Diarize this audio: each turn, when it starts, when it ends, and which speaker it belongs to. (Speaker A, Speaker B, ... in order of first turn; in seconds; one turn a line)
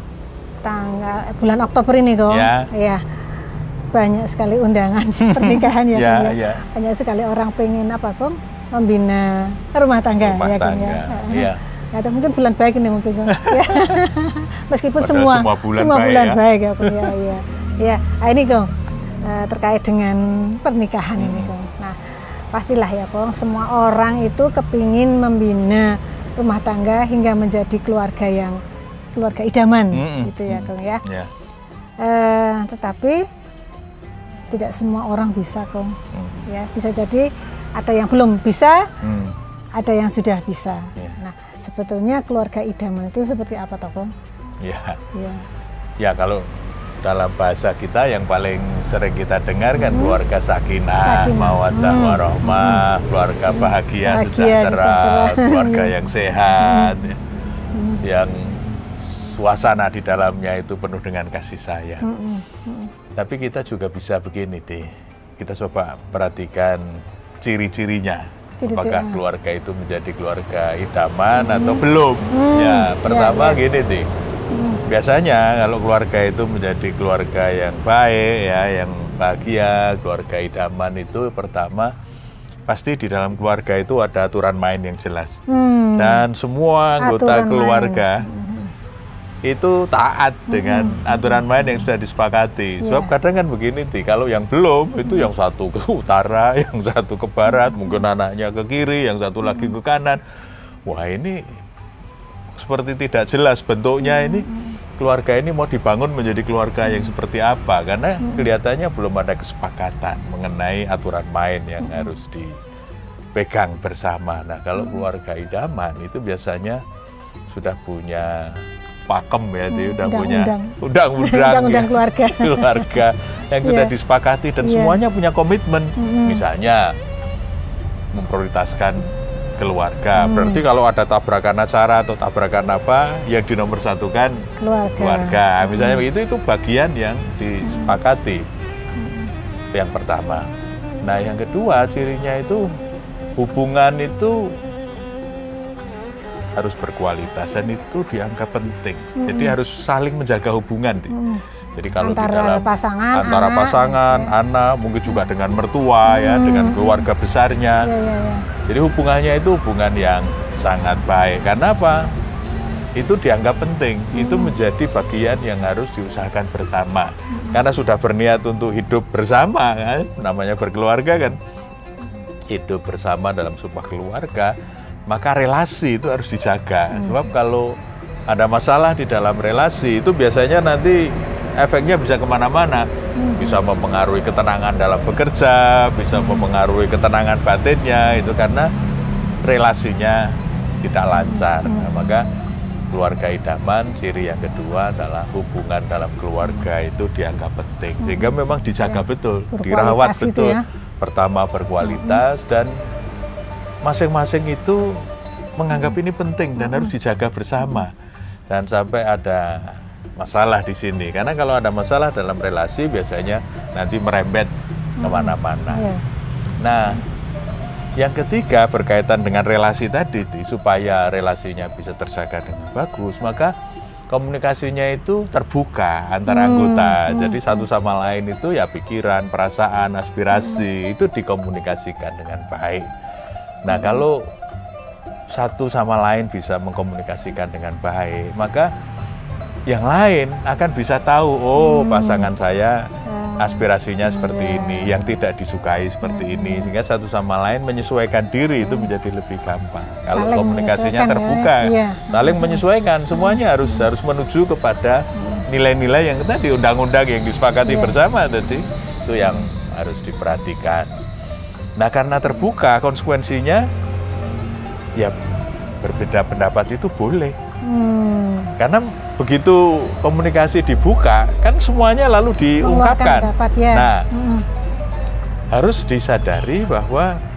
Speaker A: 0.6-3.2
Speaker B: 2.3-2.7
Speaker A: 3.9-18.7
Speaker B: 5.2-6.6
Speaker B: 10.2-11.6
Speaker B: 13.3-14.1
Speaker B: 15.0-17.1
Speaker A: 19.2-28.6
Speaker B: 21.2-21.6
Speaker A: 29.1-31.0
Speaker B: 29.9-31.3
Speaker A: 32.0-33.2
Speaker A: 34.5-38.8
Speaker B: 36.1-36.4
Speaker B: 39.0-39.4
Speaker A: 39.8-44.1
Speaker B: 44.6-45.0
Speaker A: 45.1-45.5
Speaker B: 46.0-57.2
Speaker A: 49.8-50.2
Speaker A: 51.0-52.9
Speaker A: 53.5-55.9
Speaker A: 56.6-57.0
Speaker A: 57.7-58.0
Speaker B: 58.0-62.1
Speaker A: 62.0-62.9
Speaker B: 63.2-74.1
Speaker A: 68.6-69.2
Speaker A: 71.3-73.6
Speaker A: 74.5-74.8
Speaker B: 74.9-81.9
Speaker B: 82.7-85.3
Speaker A: 85.5-86.2
Speaker B: 86.0-88.2
Speaker A: 87.0-88.7
Speaker B: 89.4-100.2
Speaker A: 90.5-91.4
Speaker A: 92.8-93.1
Speaker A: 97.5-98.0
Speaker B: 100.9-101.6
Speaker B: 102.5-112.6
Speaker A: 104.0-104.8
Speaker A: 106.8-107.1
Speaker A: 108.2-108.5
Speaker A: 111.8-112.1
Speaker B: 113.3-116.8
Speaker B: 117.5-127.0
Speaker A: 119.7-123.0
Speaker A: 123.6-123.9
Speaker A: 124.6-125.0
Speaker A: 126.0-126.4
Speaker B: 128.1-134.4
Speaker A: 130.2-130.6
Speaker A: 134.6-136.1
Speaker B: 135.0-138.4
Speaker A: 137.6-138.0
Speaker A: 139.0-139.3
Speaker B: 139.7-140.5
Speaker B: 141.0-142.7
Speaker B: 143.4-144.5
Speaker B: 146.6-151.1
Speaker A: 149.2-149.6
Speaker A: 151.1-151.4
Speaker B: 151.8-157.9
Speaker A: 152.0-154.3
Speaker A: 156.1-157.1
Speaker A: 157.8-158.5
Speaker B: 158.7-162.1
Speaker B: 163.0-171.4
Speaker A: 164.1-164.6
Speaker A: 167.3-167.6
Speaker B: 172.5-174.5
Speaker B: 175.1-177.8
Speaker A: 176.9-177.2
Speaker B: 178.3-182.9
Speaker A: 183.2-183.6
Speaker B: 183.4-188.7
Speaker A: 186.1-186.5
Speaker B: 189.4-192.2
Speaker A: 191.2-191.9
Speaker B: 192.9-202.7
Speaker A: 198.0-200.6
Speaker A: 201.8-202.2
Speaker B: 203.8-205.1
Speaker B: 205.6-207.9
Speaker A: 205.7-206.0
Speaker A: 206.6-206.9
Speaker B: 208.5-214.5
Speaker A: 215.0-216.0
Speaker B: 215.0-215.9
Speaker B: 216.6-217.0
Speaker B: 218.0-223.5
Speaker B: 224.1-232.9
Speaker A: 226.3-227.7
Speaker A: 230.3-230.7
Speaker B: 233.6-234.3
Speaker A: 233.7-234.0
Speaker B: 235.3-238.7
Speaker B: 239.7-260.9
Speaker A: 241.6-242.3
Speaker A: 243.1-245.1
Speaker A: 246.0-246.7
Speaker A: 248.6-248.9
Speaker A: 250.1-253.9
Speaker A: 255.2-255.4
Speaker A: 257.6-258.0
Speaker B: 261.8-263.7
Speaker B: 265.8-267.4
Speaker A: 267.6-268.6
Speaker B: 268.6-274.1
Speaker A: 272.6-274.4
Speaker B: 275.5-277.1